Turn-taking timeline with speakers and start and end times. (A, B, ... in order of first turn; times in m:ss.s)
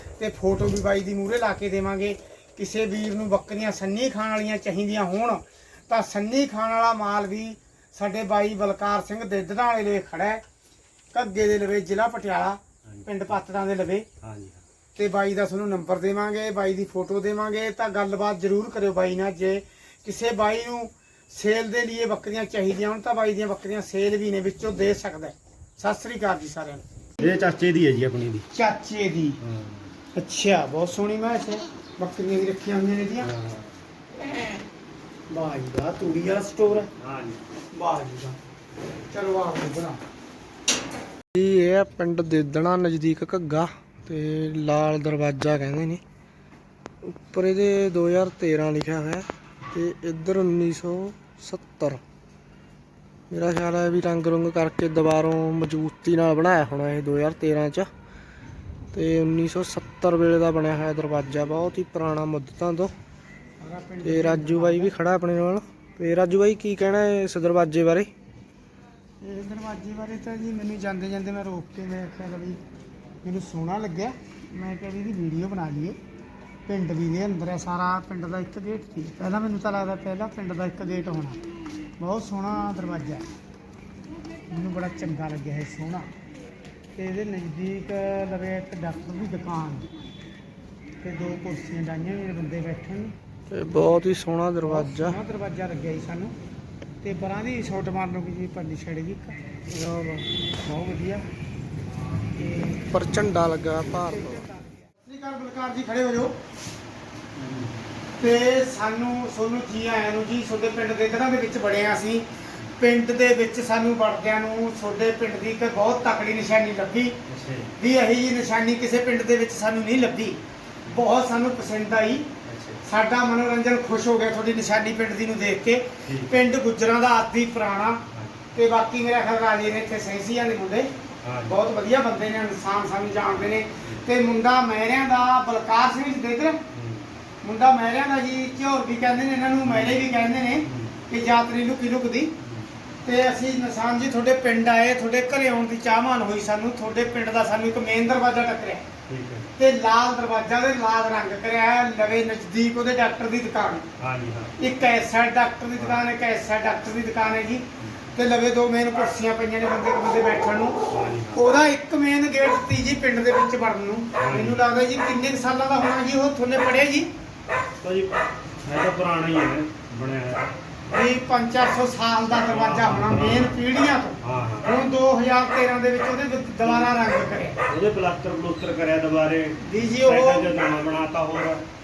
0:00.2-0:10.4 A
0:11.1-0:14.1 A
0:12.9-0:13.2 B
0:14.2-0:14.6 B
0:15.0-0:26.8 A
0:27.2-0:28.5 B
0:28.5-0:29.4 A
0:29.4-0:29.9 B
0:30.2-0:33.3 A
0:33.2-0:33.7 B
0:35.3-0:36.9 A
0:36.8-0:37.4 B
0:37.7-0:38.4 A
0:39.1-0:40.0 A
0:41.3-0:46.0 C
0:47.0-0:52.0 C
0:53.3-0:57.9 C
0:58.9-1:02.9 C
1:03.6-1:04.9 A
1:04.0-1:08.1 C
1:09.2-1:12.6 A
1:13.2-1:16.0 A
1:16.7-1:21.4 A
1:22.0-1:23.3 A
1:24.5-1:26.1 A
1:27.0-1:29.9 A
1:31.0-1:33.2 A
1:33.5-1:35.2 C
1:34.6-1:36.3 A
1:37.0-1:39.4 A
1:39.7-1:40.3 C
1:40.6-1:41.3 A
1:42.4-1:42.8 A
1:42.7-1:44.4 C
1:43.9-1:46.4 A
1:47.4-1:47.8 B
1:48.2-1:52.2 A
1:52.8-1:57.2 A
1:57.3-1:57.8 B
1:57.8-2:02.3 A
2:02.5-2:02.8 B
2:02.8-2:08.0 A
2:06.0-2:06.4 B
2:08.1-2:08.4 B
2:08.6-2:10.9 A
2:11.2-2:11.6 B
2:11.5-2:16.6 A
2:16.7-2:17.1 B
2:17.4-2:22.3 A
2:19.6-2:20.1 B
2:20.7-2:21.0 B
2:22.4-2:22.7 B
2:23.0-2:28.8 A
2:29.1-2:29.5 B
2:29.6-2:33.9 A
2:34.0-2:34.6 B
2:34.6-2:40.8 A
2:35.8-2:36.0 B
2:40.9-2:41.5 B
2:41.3-2:47.1 A
2:44.2-2:44.6 B
2:47.8-2:50.5 B
2:50.9-2:57.6 A
2:52.4-2:53.6 B
2:54.2-2:54.7 B
2:57.7-3:01.6 B
2:59.6-3:00.5 A